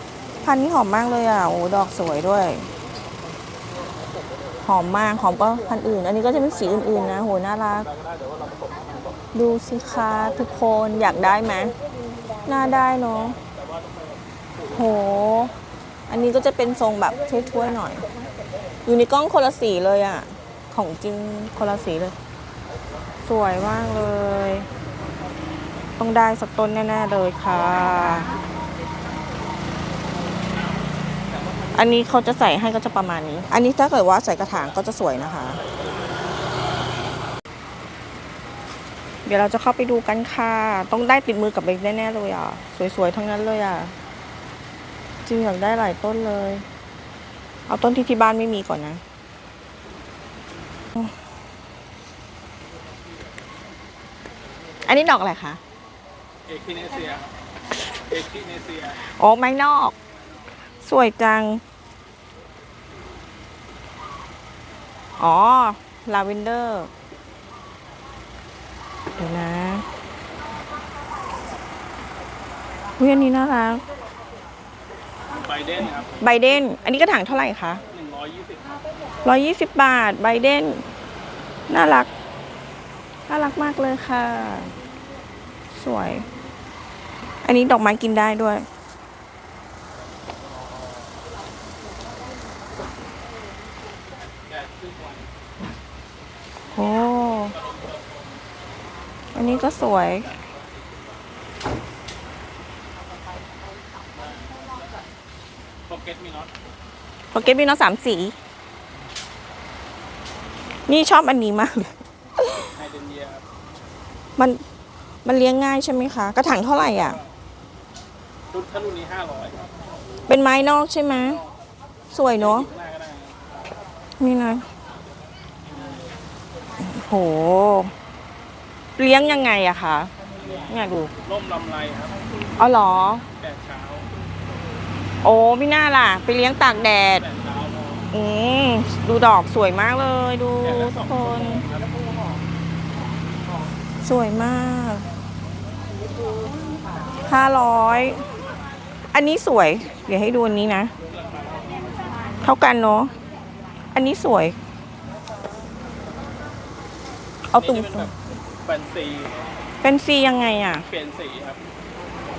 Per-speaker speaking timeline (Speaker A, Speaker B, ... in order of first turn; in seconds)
Speaker A: 0.4-2.7, 4.6-7.9, 9.3-11.7, 12.4-13.4, 14.7-15.5, 16.1-18.1, 18.9-22.1, 23.2-24.7, 26.0-28.3, 31.7-35.6, 39.2-43.9, 45.2-46.6, 47.7-49.0, 54.9-55.6, 59.0-59.9, 60.8-61.6, 65.2-66.9, 69.1-69.8, 73.0-73.8, 76.2-77.8, 79.2-80.9, 81.7-82.1, 83.3-84.7, 85.7-86.3, 87.4-88.7, 96.7-97.5, 99.3-100.3, 107.3-108.3, 110.9-112.7, 114.4-114.6, 115.2-117.2, 120.3-121.4, 122.1-122.7, 124.2-124.7, 126.8-127.9, 129.0-130.1, 130.7-131.1, 132.6-133.2, 135.2-137.2, 138.1-141.6, 144.0-145.1, 147.2-148.2, 149.1-150.9, 152.4-153.1, 153.9-154.6, 157.5-158.1, 159.8-160.8
Speaker B: 7.9-9.1, 13.4-14.7, 56.5-57.2, 58.0-59.0, 75.3-76.2, 77.9-78.8, 94.2-95.3, 97.5-98.3, 99.5-100.7, 104.1-104.9, 105.9-106.5, 112.7-113.4, 116.9-117.3, 118.5-119.7, 122.3-123.6, 125.7-126.0, 130.4-130.7, 131.2-132.2, 133.3-134.1, 137.1-138.1, 140.6-141.9, 151.1-151.9, 157.6-159.4, 160.8-161.6